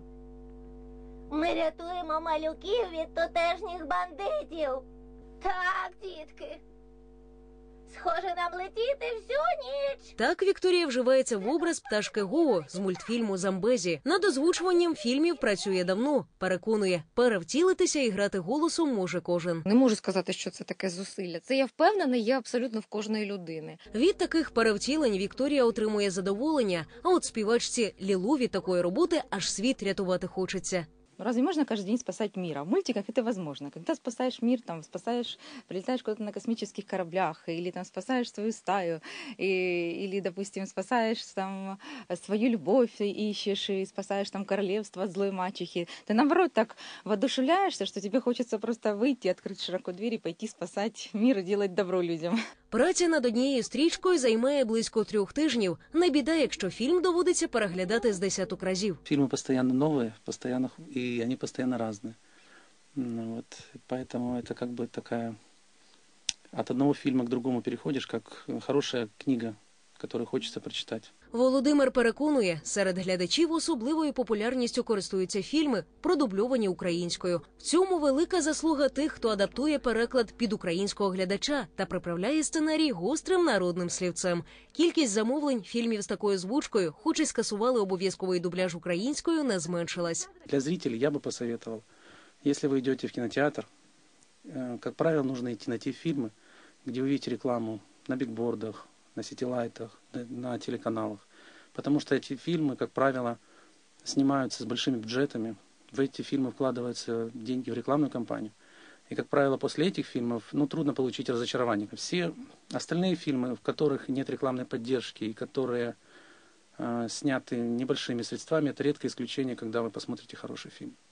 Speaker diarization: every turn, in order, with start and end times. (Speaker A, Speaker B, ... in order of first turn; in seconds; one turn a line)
Speaker A: 1.3-4.8
Speaker A: 5.4-6.6
Speaker A: 7.9-10.1
Speaker B: 10.2-19.7
Speaker C: 19.7-23.8
Speaker B: 23.9-30.9
Speaker D: 31.2-52.4
Speaker B: 52.7-59.0
Speaker E: 59.0-62.2
Speaker E: 63.0-65.4
Speaker E: 66.5-71.1
Speaker B: 71.3-90.3
Speaker E: 90.5-91.8
Speaker E: 92.4-93.7
Speaker E: 94.5-96.3
Speaker E: 96.8-103.4
Speaker E: 104.0-108.5
Speaker E: 109.1-116.0
Speaker E: 116.8-120.9